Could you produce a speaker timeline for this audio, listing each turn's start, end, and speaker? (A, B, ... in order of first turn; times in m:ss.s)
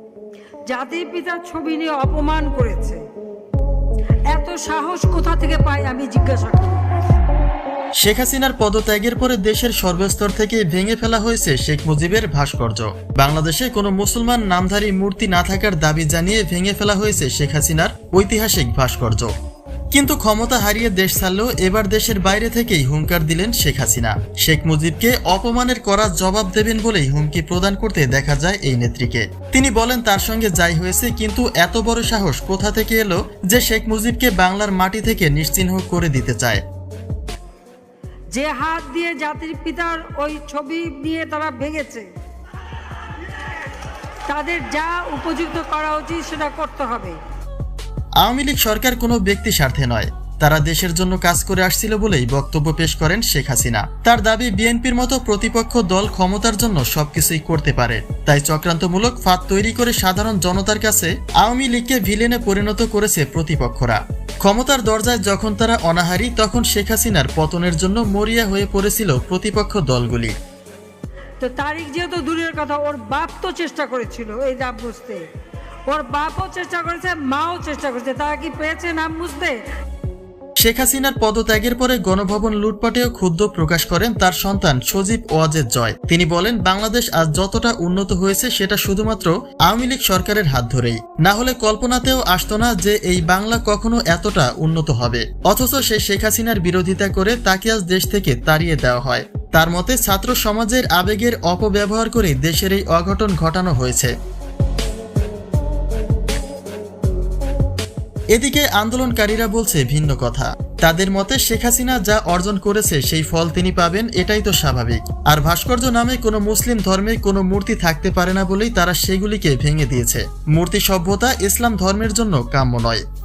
0:00.7-0:03.0 A
0:04.3-0:06.8 A
0:08.0-0:19.3 B
0:19.9-0:36.6 B
0:38.3-0:42.1 A
0:44.3-0:47.2 A
0:48.2-1:10.3 B
1:11.4-1:15.2 A
1:15.9-1:19.6 A
1:20.6-1:44.1 B
1:48.3-2:03.0 B